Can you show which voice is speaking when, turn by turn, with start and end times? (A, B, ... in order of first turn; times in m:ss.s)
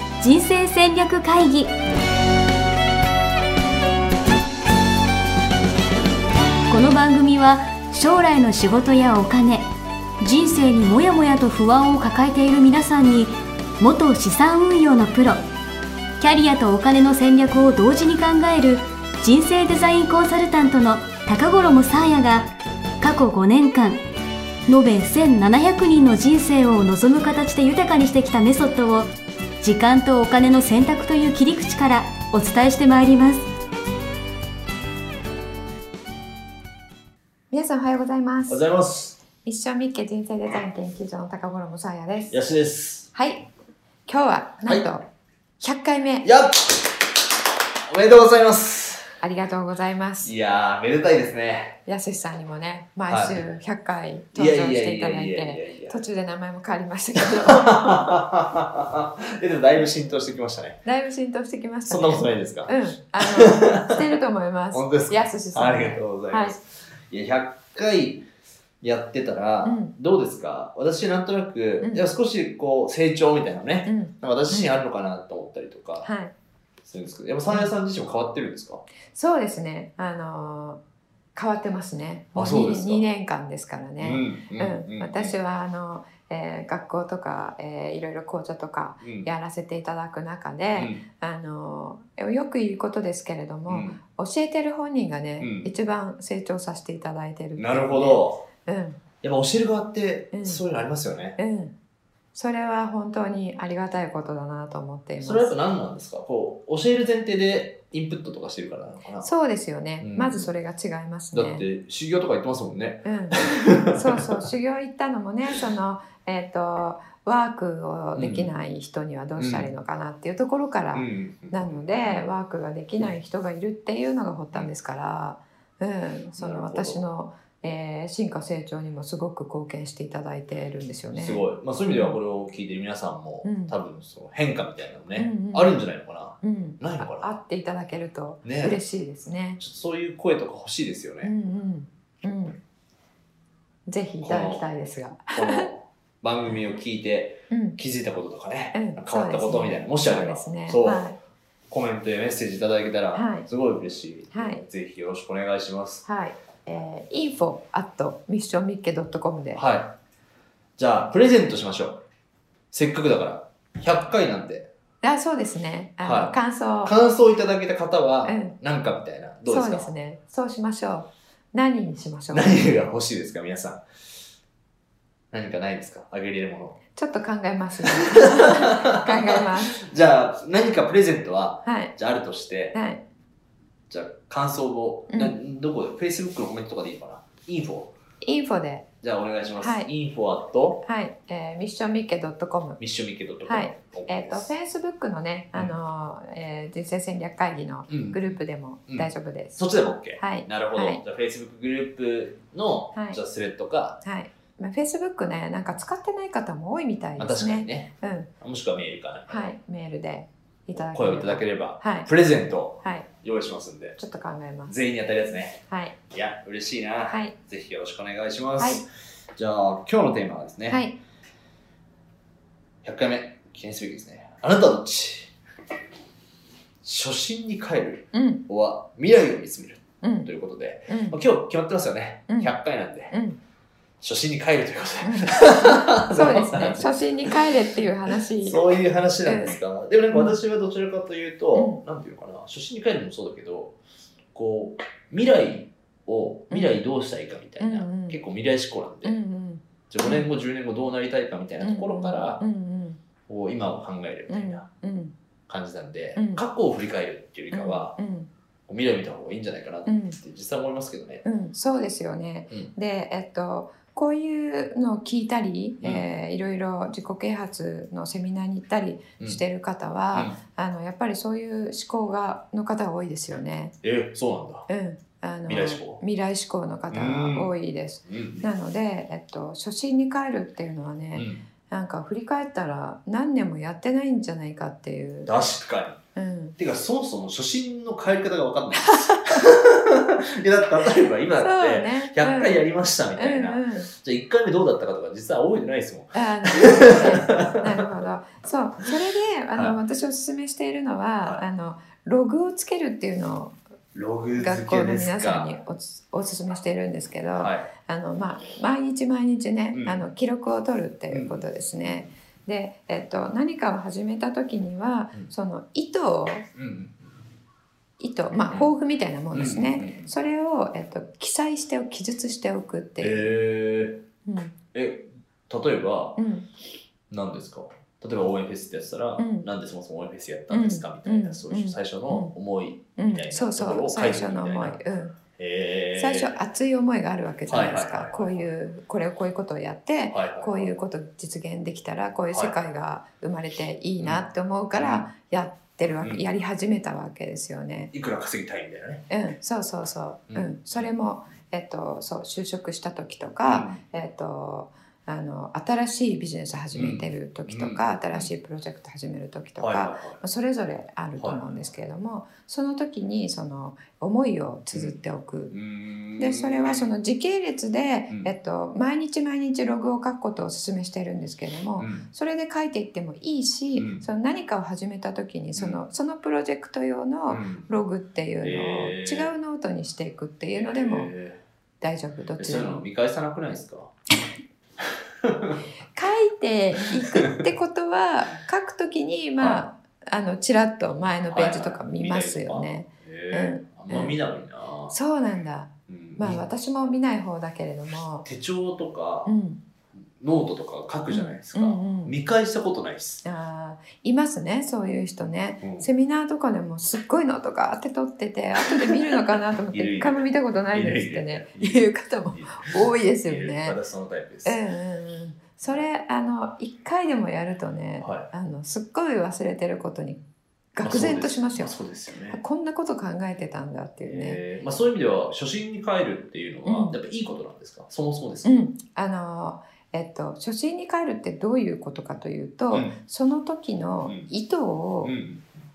0:00.2-0:01.7 A
0:06.7-0:09.7 A
0:10.2-0:15.4 A
0:16.2-0:22.5 A
0:23.0-0:24.0 A
0:24.7-0:29.1 A
0:29.6-0:33.4 A
0:37.5-0:38.6 B
0:38.5-0:39.2 C
0:39.4-0:42.4 B
0:42.3-0:43.1 C
0:43.1-0:43.5 B
0:44.1-0:45.0 B
0:45.6-0:46.3 B
0:46.2-0:47.2 C
0:47.9-0:49.1 C
0:49.2-0:50.3 B
0:50.2-0:51.8 C
0:51.9-0:58.0 B
0:53.1-0:53.4 C
0:54.3-0:56.0 C
0:57.2-1:00.8 C
1:00.8-1:06.6 B
1:01.9-1:04.2 C
1:04.7-1:08.3 C
1:08.8-1:16.1 C
1:09.6-1:09.9 B
1:11.8-1:12.0 B
1:13.9-1:14.7 B
1:16.0-1:16.3 B
1:16.8-1:18.8 C
1:19.1-1:20.8 B
1:21.3-1:39.0 B
1:22.3-1:23.0 C
1:24.0-1:25.3 C
1:29.0-1:29.3 C
1:30.8-1:31.0 C
1:33.7-1:34.0 C
1:35.4-1:35.7 C
1:37.6-1:38.4 C
1:39.2-1:41.4 C
1:40.3-1:40.6 B
1:41.4-1:41.7 B
1:42.3-1:45.6 B
1:45.2-1:49.3 C
1:49.2-1:51.7 B
1:50.0-1:50.5 C
1:51.3-1:54.4 C
1:53.0-2:12.2 B
1:58.1-1:58.5 C
1:59.4-1:59.7 C
2:00.9-2:02.3 C
2:06.4-2:07.0 C
2:11.1-2:17.3 C
2:13.4-2:13.8 B
2:15.2-2:15.8 B
2:16.4-2:19.6 B
2:18.4-2:18.8 C
2:19.6-2:21.3 C
2:21.2-2:22.6 B
2:23.9-2:25.7 B
2:24.2-2:24.7 C
2:25.3-2:31.1 C
2:27.5-2:27.8 B
2:28.7-2:31.2 B
2:31.7-2:36.0 C
2:33.1-2:33.5 B
2:34.3-2:34.6 B
2:36.1-2:39.6 B
2:39.6-2:40.0 C
2:40.8-2:42.0 C
2:42.7-2:44.7 C
2:45.0-2:46.9 B
2:46.0-2:49.9 C
2:48.2-2:48.6 B
2:49.5-2:52.7 B
2:52.3-2:53.8 C
2:55.3-2:56.8 C
2:57.0-2:59.8 B
2:57.8-3:02.8 C
3:01.6-3:01.9 B
3:02.7-3:03.0 B
3:03.9-3:07.9 C
3:05.1-3:05.4 B
3:08.2-3:08.9 B
3:09.0-3:10.8 C
3:09.6-3:09.9 B
3:10.8-3:12.8 B
3:12.8-3:14.5 C
3:13.4-3:21.0 B
3:17.9-3:18.4 C
3:18.9-3:24.0 C
3:24.0-3:28.3 B
3:27.2-3:29.5 C
3:29.3-3:32.1 B
3:30.9-3:34.0 C
3:32.8-3:33.1 B
3:34.0-3:34.8 B
3:34.7-3:40.8 C
3:35.7-3:36.0 B
3:37.1-3:37.3 B
3:38.6-3:38.8 B
3:40.7-3:41.0 B
3:42.8-3:45.3 C
3:46.8-3:53.2 C
3:48.1-3:48.4 B
3:50.0-3:50.3 B
3:50.9-3:51.2 B
3:52.3-3:52.6 B
3:53.1-3:53.4 B
3:54.0-3:57.3 C
3:55.0-3:58.7 B
3:58.4-4:03.8 C
3:59.2-3:59.6 B
4:00.1-4:00.4 B
4:01.6-4:01.8 B
4:04.3-4:09.2 C
4:06.5-4:06.8 B
4:07.6-4:08.2 B
4:09.0-4:10.3 B
4:09.9-4:12.4 C
4:11.6-4:13.0 B
4:13.3-4:14.7 C
4:14.3-4:15.2 B
4:15.5-4:18.0 C
4:16.2-4:16.4 B
4:17.5-4:18.3 B
4:18.7-4:21.2 C
4:19.9-4:20.2 B
4:21.2-4:33.8 B
4:30.1-4:30.4 C
4:33.8-4:34.7 C
4:34.7-4:45.3 B
4:35.5-4:36.0 C
4:36.9-4:37.5 C
4:38.1-4:38.5 C
4:41.2-4:41.4 C
4:45.2-4:46.0 C
4:46.2-4:46.6 B
4:46.6-4:57.8 C
4:48.8-4:49.5 B
4:51.4-4:52.6 B
4:53.2-4:53.9 B
4:56.1-5:03.6 B
5:03.9-5:05.6 C
5:04.4-5:16.5 B
5:07.4-5:07.7 C
5:09.7-5:10.0 C
5:11.1-5:12.1 C
5:16.6-5:17.1 C
5:18.0-5:23.3 B
5:19.3-5:20.1 C
5:23.0-5:24.0 C
5:24.2-5:24.6 B
5:24.7-5:26.2 C
5:26.2-5:26.4 B
5:27.1-5:34.8 C
5:29.2-5:29.5 B
5:30.5-5:32.3 B
5:33.0-5:35.2 B
5:35.4-5:36.3 C
5:35.9-5:47.9 B
5:37.5-5:38.5 C
5:40.1-5:40.7 C
5:42.3-5:42.6 C
5:44.0-5:45.1 C
5:47.9-5:49.1 C
5:49.1-6:05.5 B
5:50.3-5:50.9 C
5:53.4-5:53.8 C
5:56.7-5:58.3 C
5:59.6-6:00.2 C
6:04.7-6:05.0 C
6:05.5-6:06.9 C
6:06.2-6:21.1 B
6:11.8-6:12.1 C
6:13.8-6:14.0 C
6:15.6-6:15.8 C
6:17.3-6:17.7 C
6:18.4-6:19.3 C
6:20.6-6:21.4 C
6:21.8-6:22.8 B
6:22.4-6:23.9 C
6:25.2-6:25.6 C
6:25.9-6:34.2 B
6:26.9-6:27.5 C
6:29.4-6:29.6 C
6:31.3-6:34.9 C
6:34.9-6:38.3 B
6:35.9-6:36.4 C
6:38.2-6:39.3 C
6:39.2-6:39.6 B
6:40.2-6:43.2 C
6:41.1-6:42.2 B
6:43.2-6:53.8 B
6:45.6-6:45.9 C
6:48.8-6:49.2 C
6:49.7-6:54.6 C
6:54.4-7:00.2 B
6:58.0-6:58.3 C
7:00.8-7:01.7 B
7:00.8-7:02.4 C
7:02.3-7:04.4 B
7:04.0-7:08.6 C
7:06.6-7:07.0 B
7:08.4-7:15.1 B
7:12.7-7:13.0 C
7:14.0-7:14.3 C
7:15.0-7:15.5 C